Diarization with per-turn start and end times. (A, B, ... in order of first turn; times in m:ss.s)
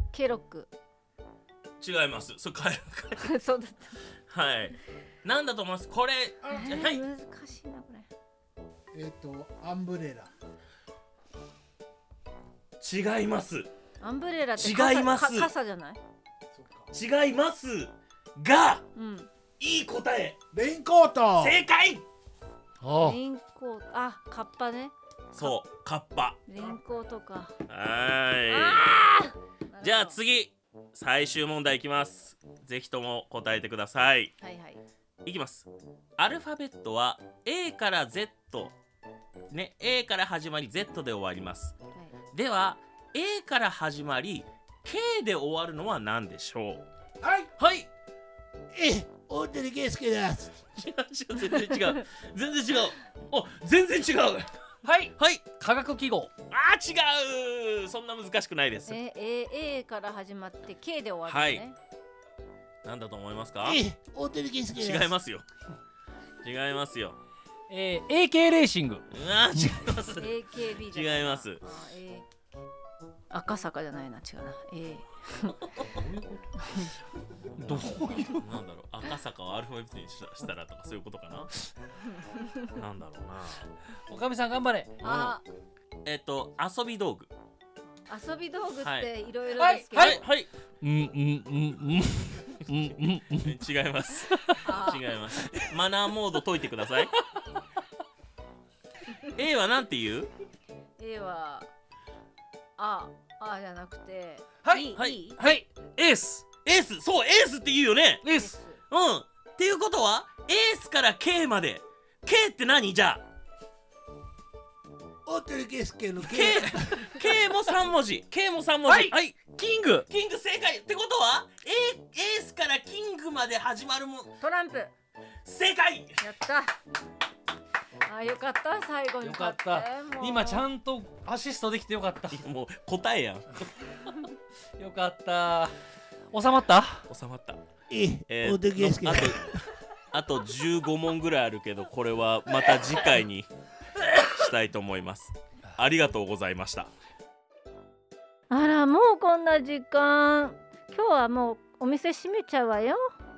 0:00.1-0:00.7 A
0:01.8-0:03.3 B
0:03.2-0:04.0 A
0:04.3-0:07.0 B
0:06.4-0:06.8 C
0:06.5-0:08.1 A
0:08.9-0:10.3 C
0:12.8-0:13.7 B
0:14.0-0:16.0 A
0:14.6-0:15.5 B
0:16.5-0:16.9 C
0:16.9-0:18.8 B
0:19.0-0:19.3 A
0:19.6-0:20.4 B
0:20.5-0:21.6 C
0:21.4-0:22.0 B
0:22.8-0:23.2 D
0:23.0-0:25.6 A
0:25.3-0:26.4 B
0:26.5-0:27.6 A
0:27.7-0:29.1 B
0:28.5-0:30.2 A
0:29.8-0:34.3 B
0:34.4-0:34.8 A
0:35.2-0:38.7 B
0:39.5-0:41.8 B
0:42.3-0:46.8 B
0:47.2-0:47.5 C
0:47.6-0:47.9 B
0:48.7-0:50.5 C
0:50.8-0:54.5 B
0:54.8-0:56.3 D
0:55.2-0:55.4 B
0:56.5-0:59.0 B
0:58.9-1:01.8 A
1:01.3-1:01.6 B
1:02.8-1:03.8 B
1:03.6-1:05.1 C
1:04.8-1:05.4 B
1:06.4-1:07.2 B
1:07.7-1:09.8 D
1:09.1-1:10.3 B
1:10.2-1:12.3 A
1:10.8-1:11.6 B
1:13.3-1:15.7 A
1:17.6-1:18.5 D
1:17.7-1:21.5 B
1:22.1-1:22.7 A
1:22.8-1:23.7 B
1:24.1-1:25.0 D
1:25.0-1:25.4 B
1:25.0-1:25.4 A
1:26.0-1:27.3 B
1:28.1-1:30.2 A
1:28.8-1:29.1 B
1:29.6-1:30.2 D
1:30.0-1:30.5 B
1:30.8-1:33.5 D
1:33.4-1:37.1 B
1:34.6-1:35.1 A
1:39.3-1:40.3 B
1:41.0-1:41.7 A
1:42.8-1:45.4 A
1:44.6-1:46.5 D
1:45.0-1:45.3 B
1:46.6-1:48.2 B
1:48.2-1:48.6 D
1:48.3-1:48.8 A
1:48.9-1:53.2 B
1:55.3-1:57.2 C
1:56.2-2:04.4 B
1:58.9-1:59.1 D
2:04.4-2:04.9 A
2:05.4-2:06.2 B
2:06.2-2:06.7 A
2:08.1-2:10.7 A
2:09.2-2:12.4 D
2:12.3-2:13.7 B
2:14.8-2:15.8 D
2:16.3-2:17.1 D
2:17.1-2:17.6 B
2:17.9-2:19.6 C
2:18.3-2:19.5 B
2:20.1-2:23.5 B
2:24.2-2:26.9 B
2:28.5-2:33.0 A